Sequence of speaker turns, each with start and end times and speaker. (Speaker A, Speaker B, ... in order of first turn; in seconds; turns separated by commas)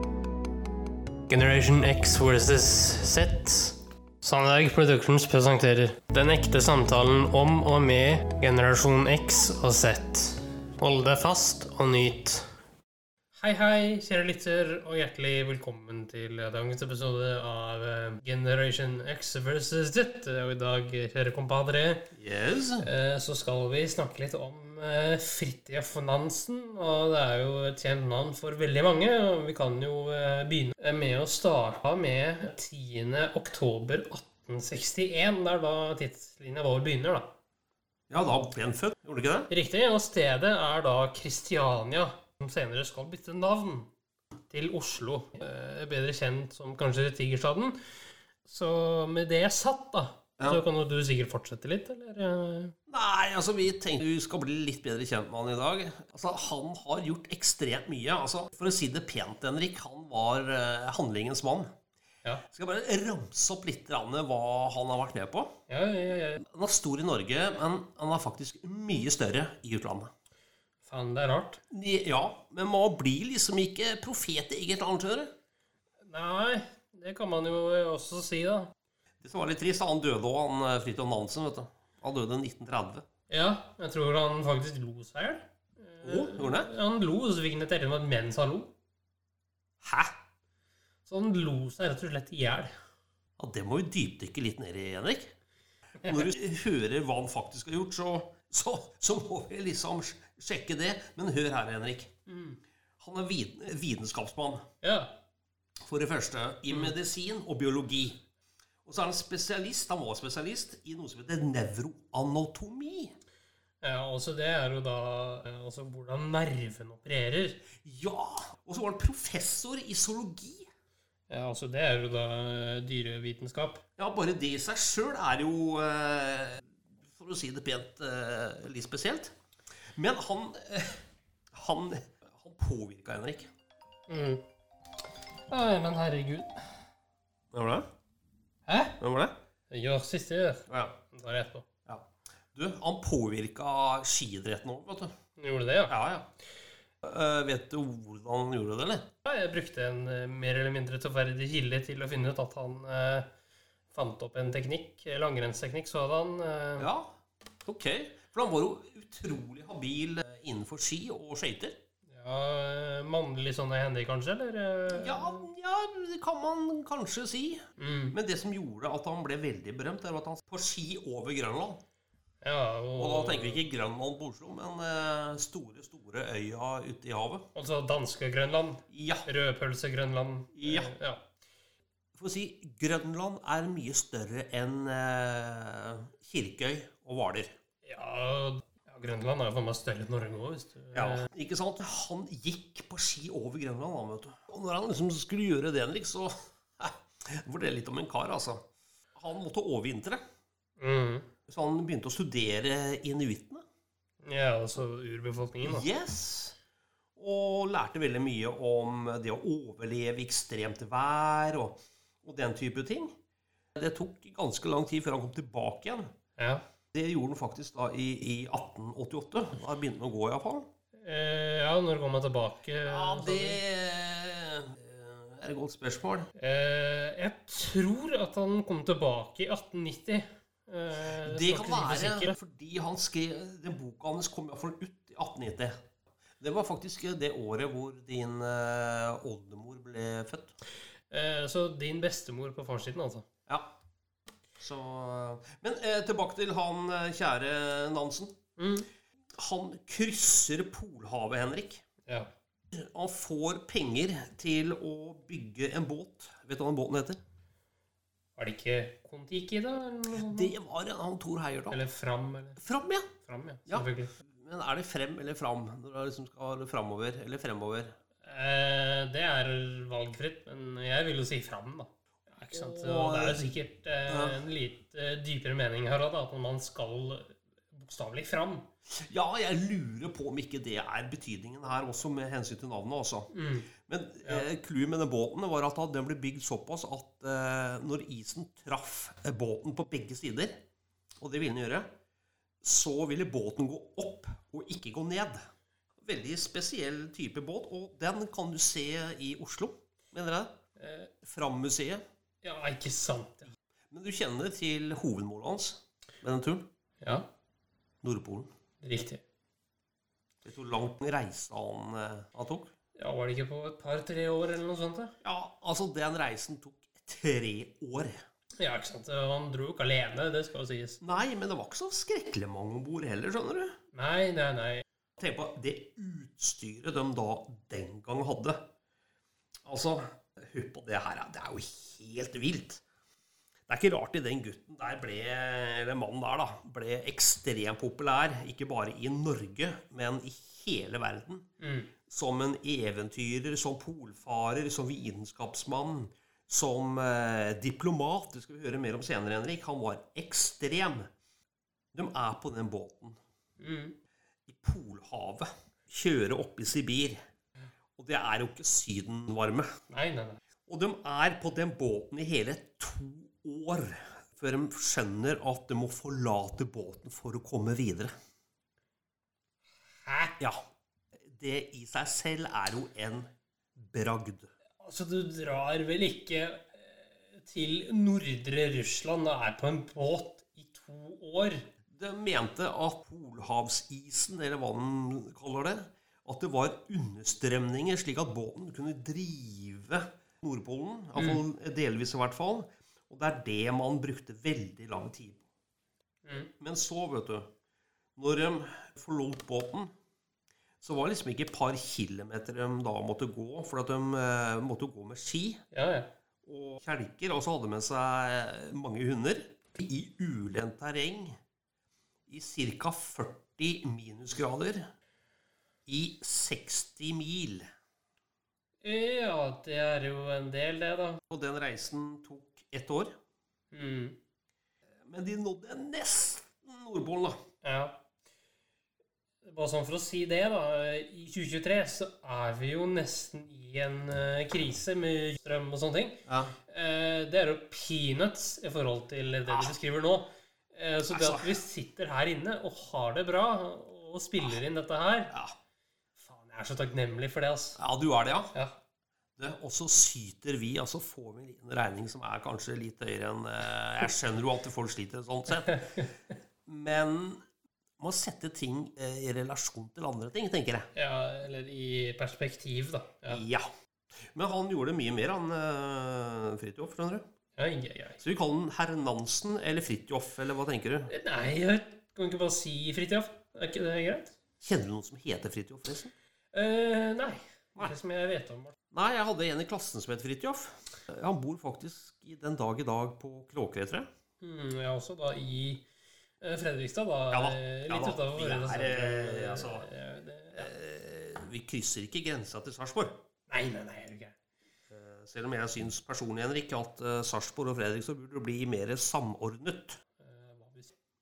Speaker A: 1.3-12.5, Speaker A: 13.3-22.1, Speaker B: 22.1-22.9, Speaker A: 22.8-37.3, Speaker B: 38.1-39.5, Speaker A: 39.5-43.9, Speaker A: 44.5-47.8, Speaker A: 48.5-52.8, Speaker B: 52.9-61.7, Speaker B: 62.5-65.5, Speaker A: 65.7-66.4, Speaker B: 66.4-70.1, Speaker A: 70.8-71.6, Speaker B: 71.7-75.3, Speaker A: 76.0-78.7, Speaker B: 79.2-83.0, Speaker A: 83.3-88.7, Speaker B: 86.0-86.7, Speaker B: 89.8-90.1, Speaker A: 91.1-92.7, Speaker B: 93.4-95.3, Speaker B: 96.0-102.1, Speaker A: 96.0-96.3, Speaker A: 102.3-102.6, Speaker B: 103.0-104.6, Speaker A: 104.8-105.1, Speaker B: 105.8-108.2, Speaker B: 108.8-113.2, Speaker A: 113.8-117.6, Speaker B: 117.8-120.7, Speaker A: 121.3-123.8, Speaker B: 124.0-129.3, Speaker B: 129.9-133.5, Speaker A: 134.1-134.4, Speaker A: 135.5-136.8, Speaker B: 137.5-137.9, Speaker A: 138.7-139.0, Speaker B: 139.0-139.3, Speaker A: 139.7-141.7, Speaker B: 140.7-140.9, Speaker B: 141.9-145.1, Speaker A: 145.4-145.9, Speaker B: 145.9-146.3, Speaker B: 147.0-149.1, Speaker A: 149.2-153.3, Speaker A: 153.9-156.9, Speaker B: 156.8-161.8, Speaker A: 162.1-165.5, Speaker B: 164.9-171.8, Speaker A: 167.8-168.2, Speaker A: 172.4-173.6, Speaker B: 173.0-177.5, Speaker A: 177.5-181.2, Speaker B: 178.9-179.3, Speaker B: 180.5-181.0, Speaker B: 182.2-187.5, Speaker A: 187.8-191.3, Speaker B: 190.9-198.6, Speaker B: 199.2-200.2, Speaker A: 200.8-201.3, Speaker B: 201.5-203.6, Speaker A: 204.2-205.9, Speaker B: 205.6-206.6, Speaker B: 207.2-213.1, Speaker B: 213.8-216.1, Speaker A: 216.4-216.6, Speaker B: 216.9-220.7, Speaker A: 221.0-223.6, Speaker B: 222.9-226.3, Speaker A: 226.4-232.4, Speaker B: 231.2-235.8, Speaker B: 236.4-240.5, Speaker A: 241.1-243.3, Speaker B: 243.5-243.7, Speaker B: 244.6-248.4, Speaker A: 248.6-248.9, Speaker B: 249.4-251.8, Speaker B: 252.7-257.2, Speaker A: 258.4-260.5, Speaker B: 260.1-261.8, Speaker A: 261.7-262.6, Speaker B: 262.6-263.1, Speaker A: 263.2-264.1, Speaker B: 263.7-267.9, Speaker A: 268.2-278.7, Speaker B: 272.5-273.4, Speaker B: 274.1-274.4, Speaker B: 278.9-283.3, Speaker A: 283.3-283.7, Speaker B: 283.9-290.6, Speaker B: 291.2-291.9, Speaker B: 292.6-295.4, Speaker B: 296.0-300.6, Speaker A: 300.8-301.1, Speaker B: 301.2-302.0, Speaker A: 302.4-303.5, Speaker B: 303.9-306.7, Speaker A: 307.0-307.3, Speaker B: 308.0-308.5, Speaker A: 308.8-309.2, Speaker B: 310.4-312.7, Speaker A: 313.0-315.1, Speaker B: 315.2-318.1, Speaker A: 318.6-321.0, Speaker B: 321.0-323.8, Speaker A: 323.9-324.9, Speaker B: 325.2-328.7, Speaker B: 329.6-332.8, Speaker B: 333.7-341.4, Speaker A: 341.6-341.9, Speaker B: 342.1-351.1, Speaker B: 351.9-353.2, Speaker A: 353.6-354.0, Speaker B: 354.5-357.2, Speaker B: 358.0-359.7, Speaker A: 359.9-360.4, Speaker B: 360.7-368.1, Speaker A: 370.0-370.4, Speaker B: 371.2-374.5, Speaker A: 374.8-381.6, Speaker B: 381.9-395.4, Speaker A: 391.2-391.4, Speaker A: 396.2-396.5, Speaker B: 396.6-397.5, Speaker B: 398.2-399.9, Speaker B: 400.8-405.6, Speaker A: 405.7-406.1, Speaker B: 406.4-411.4, Speaker B: 412.3-414.9, Speaker B: 415.9-417.7, Speaker A: 418.8-421.2, Speaker B: 421.3-423.1, Speaker A: 423.7-424.2, Speaker B: 425.1-427.4, Speaker A: 427.6-428.0, Speaker A: 429.4-445.3, Speaker B: 436.3-436.6, Speaker B: 439.5-439.8, Speaker B: 441.1-441.6, Speaker B: 445.3-445.6, Speaker A: 446.2-447.8, Speaker B: 447.8-448.5, Speaker B: 449.4-456.1, Speaker A: 455.6-456.1, Speaker B: 456.7-457.4, Speaker B: 458.0-460.9, Speaker A: 460.9-463.4, Speaker B: 463.3-463.7, Speaker B: 464.3-467.2, Speaker A: 467.6-468.2, Speaker B: 468.2-471.1, Speaker A: 471.1-474.4, Speaker B: 474.6-476.1, Speaker A: 476.5-478.8, Speaker B: 478.9-484.1, Speaker A: 484.4-485.9, Speaker A: 486.4-490.7, Speaker B: 487.3-489.9, Speaker B: 490.5-493.2, Speaker A: 493.5-494.4, Speaker B: 494.9-500.0, Speaker A: 500.2-500.9